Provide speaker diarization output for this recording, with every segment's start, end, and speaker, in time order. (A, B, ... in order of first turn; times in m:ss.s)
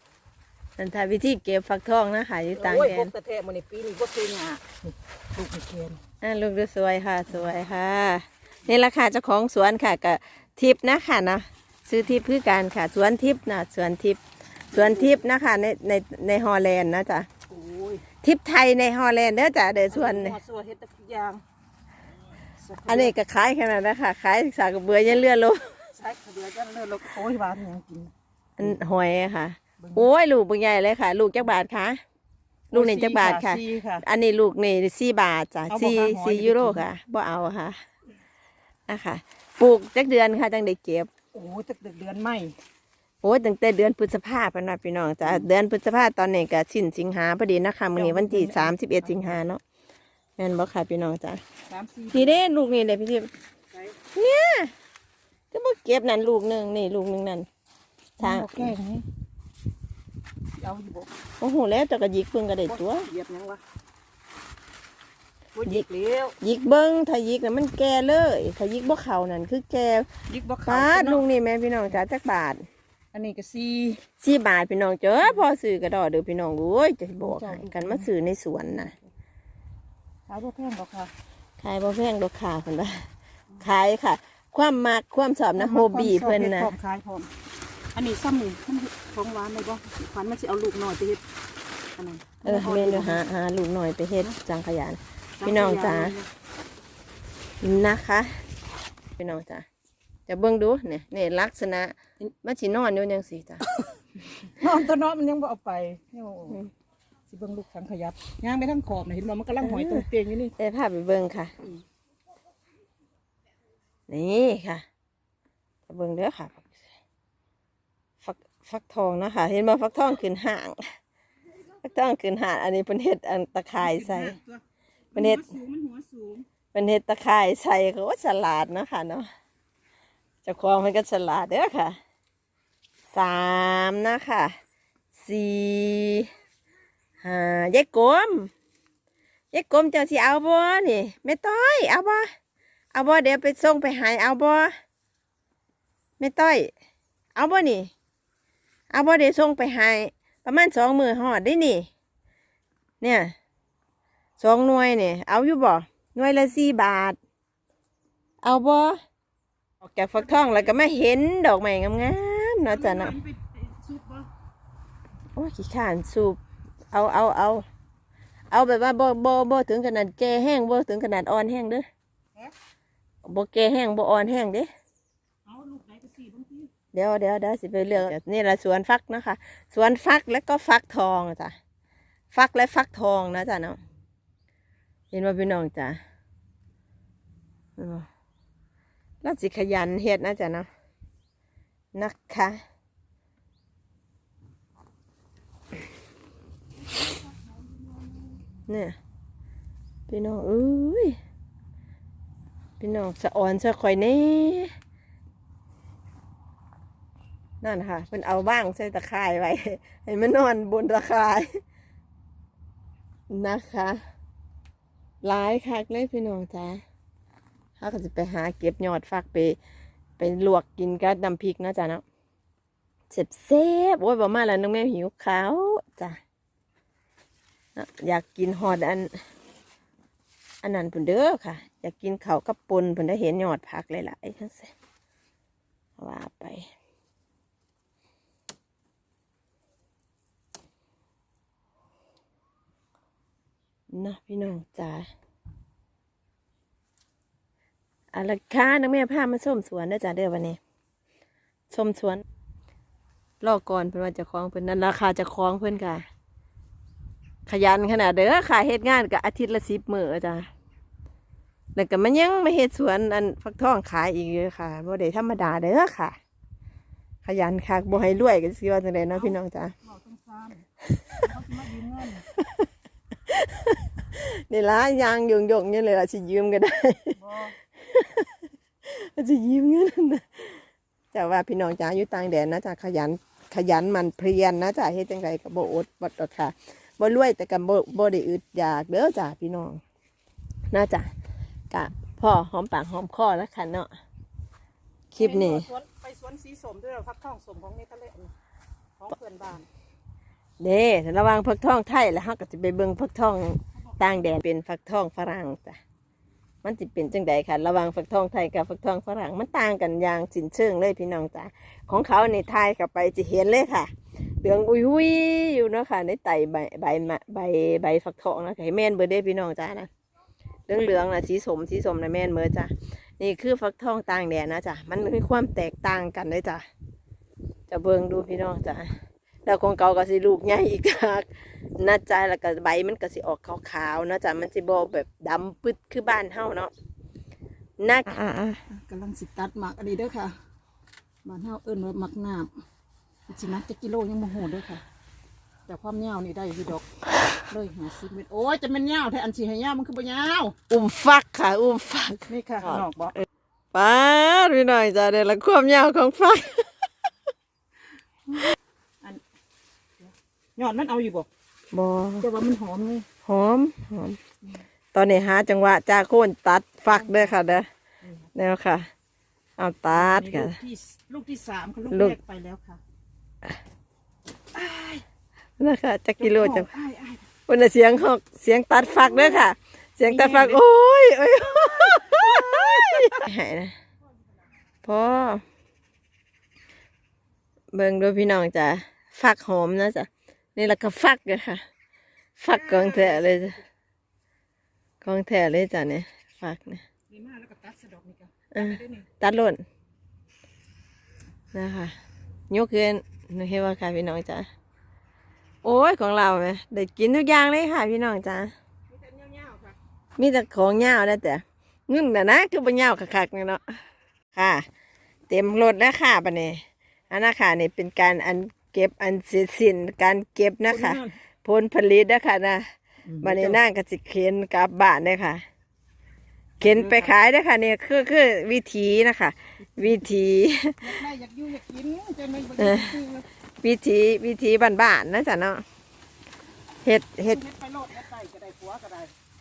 0:00.8-0:03.1 A
0:02.5-0:06.0 B
0:06.2-0:14.2 A
0:14.7-0:17.3 A
0:14.7-0:15.2 B
0:17.5-0:18.0 B
0:18.2-0:20.4 A
0:19.9-0:21.4 B
0:22.6-0:23.1 B
0:22.9-0:25.7 A
0:25.8-0:28.1 B
0:28.6-0:32.0 A
0:29.8-0:30.1 B
0:32.7-0:37.8 A
0:32.7-0:34.0 B
0:35.7-0:36.9 B
0:38.9-0:41.1 A
0:41.3-0:42.6 B
0:43.2-0:49.6 A
0:47.9-0:49.4 B
0:50.4-0:51.4 A
0:51.7-0:52.4 B
0:52.1-0:53.3 A
0:53.7-0:54.0 B
0:54.1-0:54.7 A
0:55.5-0:57.5 A
0:58.2-0:58.7 A
0:58.2-0:59.1 B
1:00.5-1:01.1 B
1:01.4-1:03.1 A
1:02.7-1:03.6 B
1:05.6-1:06.4 B
1:06.4-1:10.1 A
1:10.3-1:11.2 B
1:10.7-1:12.6 A
1:13.1-1:14.0 B
1:14.2-1:18.9 A
1:17.2-1:18.1 B
1:20.3-1:21.1 B
1:21.6-1:23.1 A
1:23.6-1:26.7 A
1:25.6-1:27.3 B
1:27.9-1:31.2 B
1:32.0-1:33.2 B
1:32.4-1:36.2 A
1:35.4-1:36.3 B
1:37.6-1:38.4 A
1:39.2-1:39.7 A
1:40.3-1:43.6 A
1:44.4-1:46.6 B
1:47.3-1:50.6 B
1:49.7-1:50.0 A
1:50.6-1:51.5 A
1:54.1-1:54.8 A
1:55.9-1:56.7 A
1:58.2-2:00.8 A
2:01.8-2:04.4 A
2:03.8-2:04.6 B
2:05.1-2:06.5 B
2:05.2-2:05.5 A
2:06.7-2:09.3 A
2:10.4-2:12.0 A
2:13.1-2:14.6 A
2:15.2-2:16.3 A
2:17.2-2:18.5 A
2:19.5-2:22.3 A
2:22.9-2:24.7 A
2:26.2-2:26.7 A
2:27.4-2:27.9 A
2:28.9-2:31.9 A
2:33.0-2:33.3 A
2:34.4-2:37.2 A
2:38.4-2:39.0 A
2:39.8-2:43.2 A
2:40.2-2:40.8 B
2:42.7-2:44.3 B
2:45.4-2:46.4 A
2:46.9-2:47.6 A
2:48.5-2:51.9 A
2:53.2-2:54.7 A
2:55.5-2:56.7 B
2:56.9-3:01.6 A
3:02.3-3:03.8 A
3:05.1-3:06.0 A
3:07.8-3:08.1 A
3:09.2-3:10.7 A
3:11.9-3:12.6 A
3:17.2-3:18.4 B
3:18.7-3:19.0 A
3:20.1-3:21.2 A
3:22.8-3:24.7 A
3:27.6-3:31.6 A
3:33.3-3:34.0 A
3:35.2-3:36.8 A
3:37.8-3:39.6 A
3:40.2-3:42.0 A
3:43.1-3:46.2 A
3:47.8-3:49.1 A
3:50.6-3:54.7 A
3:56.0-3:56.7 A
4:03.9-4:05.1 A
4:08.1-4:10.6 A
4:11.7-4:12.2 A
4:13.4-4:16.0 A
4:17.5-4:20.5 A
4:21.8-4:26.2 A
4:27.2-4:29.8 A
4:29.1-4:32.3 B
4:33.3-4:37.2 A
4:37.2-4:37.6 B
4:37.8-4:38.3 A
4:38.8-4:49.8 A
4:50.7-4:51.1 A
4:51.7-4:53.9 A
4:55.1-4:55.7 A
4:55.2-4:58.3 B
4:59.0-4:59.7 B
5:00.6-5:05.8 A
5:06.6-5:19.9 A
5:20.7-5:26.6 A
5:27.7-5:28.9 A
5:29.5-5:36.7 A
5:37.8-5:38.6 A
5:38.7-5:40.4 B
5:41.2-5:42.5 B
5:43.3-5:44.8 B
5:45.7-5:46.9 B
5:47.5-5:50.6 B
5:50.7-5:52.8 A
5:52.3-5:53.2 B
5:53.7-5:56.9 A
6:00.0-6:01.3 B
6:01.7-6:02.3 A
6:02.2-6:03.1 B
6:03.2-6:04.2 A
6:04.9-6:07.7 A
6:06.9-6:07.5 B
6:08.4-6:08.9 A
6:09.6-6:10.6 A
6:09.9-6:12.8 B
6:11.9-6:12.2 A
6:14.5-6:15.0 B
6:15.6-6:16.7 A
6:16.2-6:17.3 B
6:17.5-6:23.8 A
6:19.0-6:19.4 B
6:20.0-6:20.6 B
6:21.6-6:23.2 B
6:24.8-6:25.4 A
6:27.7-6:31.6 A
6:32.4-6:33.6 A
6:32.5-6:33.6 B
6:35.0-6:36.8 A
6:37.1-6:39.1 B
6:38.5-6:39.6 A
6:41.5-6:41.9 A
6:42.5-6:44.5 A
6:45.6-6:48.5 A
6:48.9-6:49.8 B
6:50.2-6:53.8 A
6:54.4-6:54.7 A
6:55.3-7:05.4 A
7:00.7-7:01.1 B
7:03.1-7:03.6 B
7:06.6-7:07.1 B
7:06.6-7:11.0 A
7:10.8-7:13.3 B
7:12.6-7:12.9 A
7:13.6-7:15.6 A
7:16.8-7:17.4 A
7:17.3-7:19.1 B